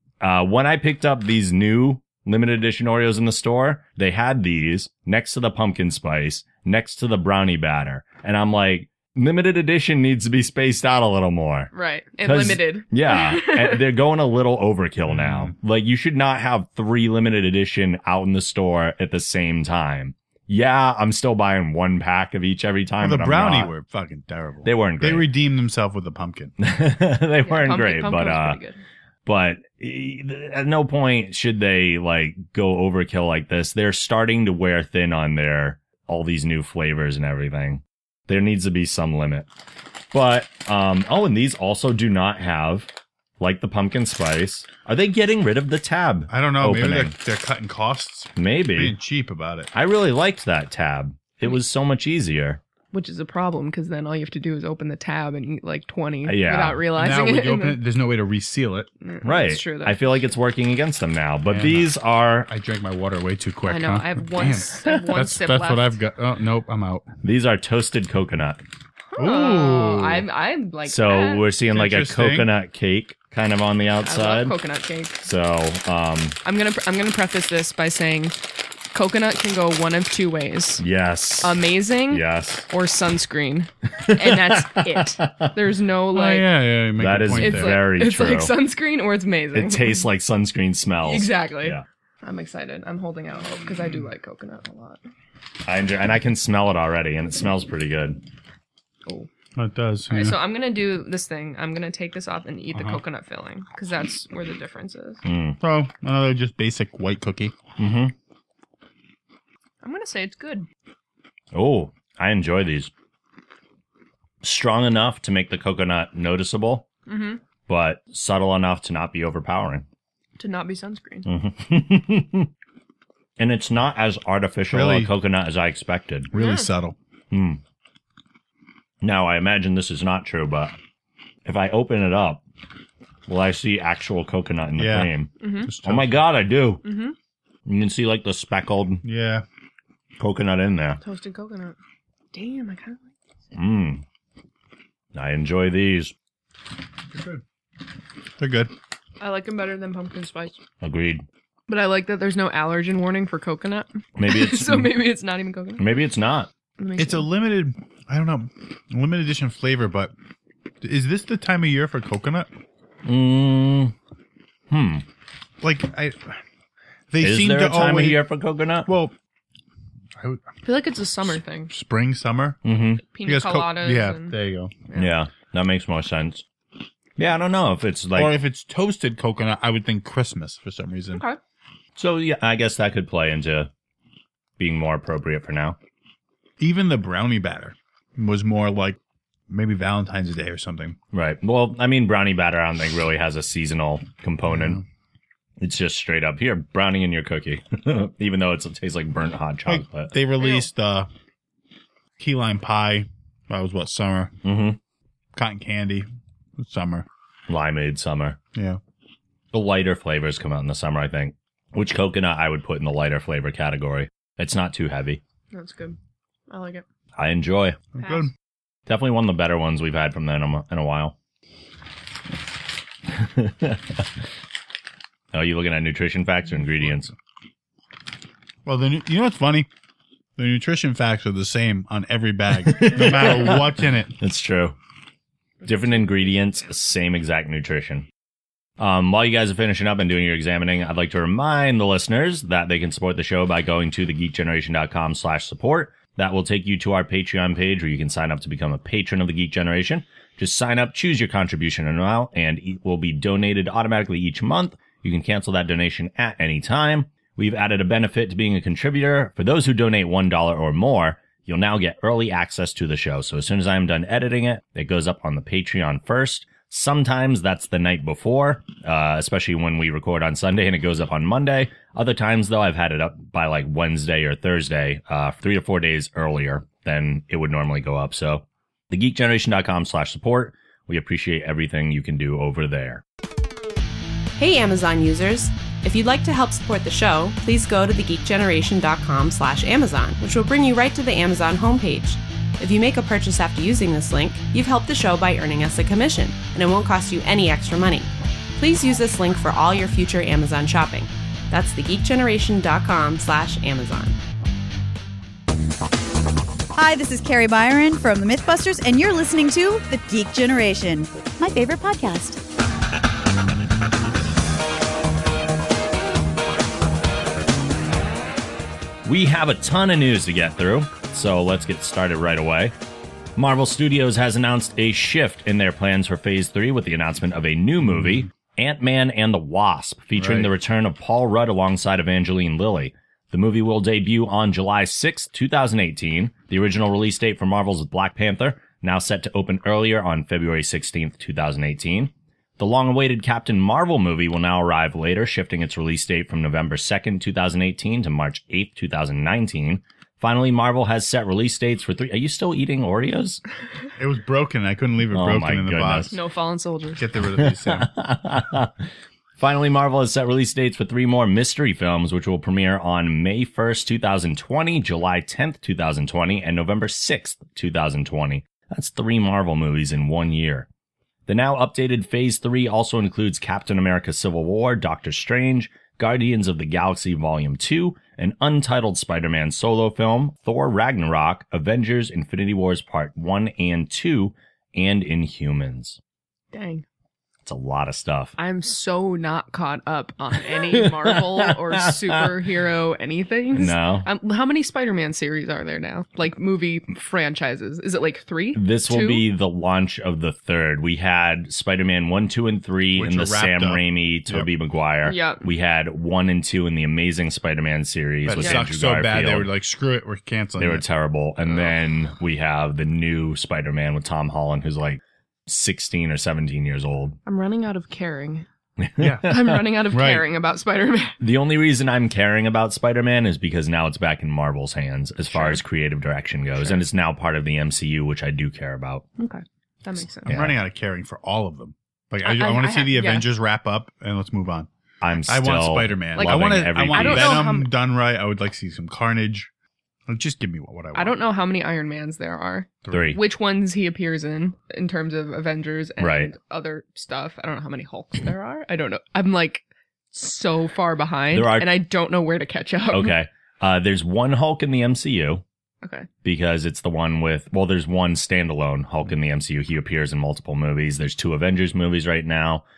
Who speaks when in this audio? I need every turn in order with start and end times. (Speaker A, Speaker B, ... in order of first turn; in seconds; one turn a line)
Speaker A: 0.2-11.7
Speaker B: 11.7-13.8
Speaker A: 12.2-23.7
Speaker C: 15.1-15.5
Speaker C: 23.0-26.5
Speaker A: 24.6-25.3
Speaker A: 26.6-28.6
Speaker B: 27.4-28.8
Speaker A: 29.2-39.5
Speaker A: 40.1-42.9
Speaker A: 43.4-47.1
Speaker C: 46.3-49.7
Speaker A: 48.4-49.0
Speaker A: 49.7-52.6
Speaker B: 52.9-57.8
Speaker A: 56.2-56.8
Speaker C: 56.9-58.9
Speaker B: 59.0-60.1
Speaker A: 59.2-62.5
Speaker C: 61.5-61.9
Speaker C: 62.5-67.1
Speaker B: 63.6-66.0
Speaker A: 67.2-68.6
Speaker B: 69.1-71.4
Speaker C: 69.2-70.2
Speaker A: 70.8-74.6
Speaker C: 71.7-72.5
Speaker B: 74.0-75.2
Speaker A: 75.2-76.4
Speaker B: 76.4-78.3
Speaker B: 78.9-80.8
Speaker A: 80.8-82.7
Speaker B: 81.4-86.5
Speaker A: 84.0-85.5
Speaker C: 86.1-87.8
Speaker A: 87.0-88.5
Speaker B: 87.3-90.0
Speaker A: 89.5-91.8
Speaker B: 91.0-95.0
Speaker A: 95.7-98.2
Speaker C: 99.6-100.4
Speaker B: 100.1-105.2
Speaker A: 105.2-105.6
Speaker C: 105.6-107.5
Speaker A: 107.8-108.1
Speaker B: 109.8-110.7
Speaker A: 111.5-112.9
Speaker A: 114.4-116.9
Speaker B: 117.1-117.4
Speaker A: 117.7-119.9
Speaker B: 120.4-121.3
Speaker A: 121.2-122.5
Speaker A: 123.4-126.3
Speaker C: 124.7-125.1
Speaker C: 126.3-127.0
Speaker B: 126.3-126.7
Speaker A: 127.3-127.6
Speaker A: 129.0-130.8
Speaker A: 131.4-132.4
Speaker A: 133.3-136.8
Speaker C: 134.8-135.1
Speaker B: 135.4-135.7
Speaker C: 135.6-136.2
Speaker B: 136.8-137.1
Speaker A: 137.7-139.0
Speaker C: 139.0-139.4
Speaker A: 140.2-141.0
Speaker B: 141.0-141.8
Speaker B: 142.3-143.1
Speaker A: 143.5-144.0
Speaker A: 145.1-146.1
Speaker C: 147.1-147.4
Speaker C: 148.4-148.7
Speaker B: 149.2-150.6
Speaker A: 150.8-151.2
Speaker B: 151.7-155.9
Speaker A: 154.2-154.9
Speaker A: 155.8-156.5
Speaker B: 156.8-157.3
Speaker C: 157.0-160.1
Speaker C: 160.8-162.5
Speaker A: 163.1-163.9
Speaker A: 164.7-165.1
Speaker C: 165.6-166.4
Speaker C: 167.1-168.2
Speaker A: 167.2-168.9
Speaker C: 168.8-169.1
Speaker C: 170.2-170.5
Speaker B: 170.6-171.7
Speaker C: 171.7-172.6
Speaker A: 172.6-173.0
Speaker B: 173.1-174.4
Speaker C: 173.2-174.7
Speaker A: 174.9-176.4
Speaker A: 177.2-178.3
Speaker C: 178.1-181.2
Speaker B: 181.1-181.4
Speaker A: 182.0-183.7
Speaker A: 184.6-185.8
Speaker C: 186.6-189.0
Speaker C: 189.5-191.0
Speaker A: 191.1-194.8
Speaker C: 194.5-194.8
Speaker A: 195.6-200.1
Speaker C: 199.7-201.1
Speaker B: 200.4-200.7
Speaker C: 202.2-204.3
Speaker A: 204.4-204.8
Speaker C: 205.3-207.1
Speaker A: 207.5-208.4
Speaker C: 208.5-208.8
Speaker A: 209.5-215.2
Speaker B: 215.5-216.0
Speaker B: 216.5-216.8
Speaker A: 217.2-217.8
Speaker C: 217.9-218.3
Speaker B: 218.0-218.3
Speaker A: 218.9-221.1
Speaker A: 223.1-223.8
Speaker A: 225.3-227.1
Speaker C: 228.6-229.7
Speaker C: 230.4-234.1
Speaker A: 232.6-234.8
Speaker A: 235.6-238.1
Speaker A: 238.8-283.0
Speaker D: 284.4-304.2
Speaker E: 306.8-312.4
Speaker A: 319.0-322.7
Speaker A: 323.4-353.4
Speaker C: 330.2-330.5
Speaker C: 354.0-356.1
Speaker A: 355.1-356.1
Speaker B: 356.1-357.1
Speaker C: 357.0-357.9
Speaker A: 357.4-358.7
Speaker A: 359.4-370.7
Speaker A: 371.3-386.0
Speaker B: 386.5-386.9
Speaker A: 387.4-388.4
Speaker B: 388.4-399.2
Speaker A: 390.7-392.4
Speaker A: 393.5-394.1
Speaker A: 398.5-409.5
Speaker C: 403.0-404.5
Speaker B: 405.0-405.4
Speaker C: 408.2-410.8
Speaker A: 410.6-417.2
Speaker B: 411.5-411.7
Speaker B: 417.2-418.5
Speaker A: 418.8-419.6
Speaker C: 419.0-419.3
Speaker B: 419.2-421.2
Speaker C: 419.9-420.2
Speaker A: 421.2-429.0
Speaker B: 425.3-425.6
Speaker B: 429.2-430.4
Speaker A: 430.2-430.6
Speaker C: 430.3-434.7
Speaker B: 432.2-433.3
Speaker A: 435.0-437.5
Speaker C: 435.2-439.5
Speaker B: 436.1-437.7
Speaker C: 440.1-441.2
Speaker B: 440.9-453.1
Speaker C: 442.9-443.1
Speaker A: 442.9-443.2
Speaker A: 446.0-446.3
Speaker A: 451.3-451.8
Speaker A: 452.9-455.4
Speaker B: 455.8-456.1
Speaker A: 456.2-462.6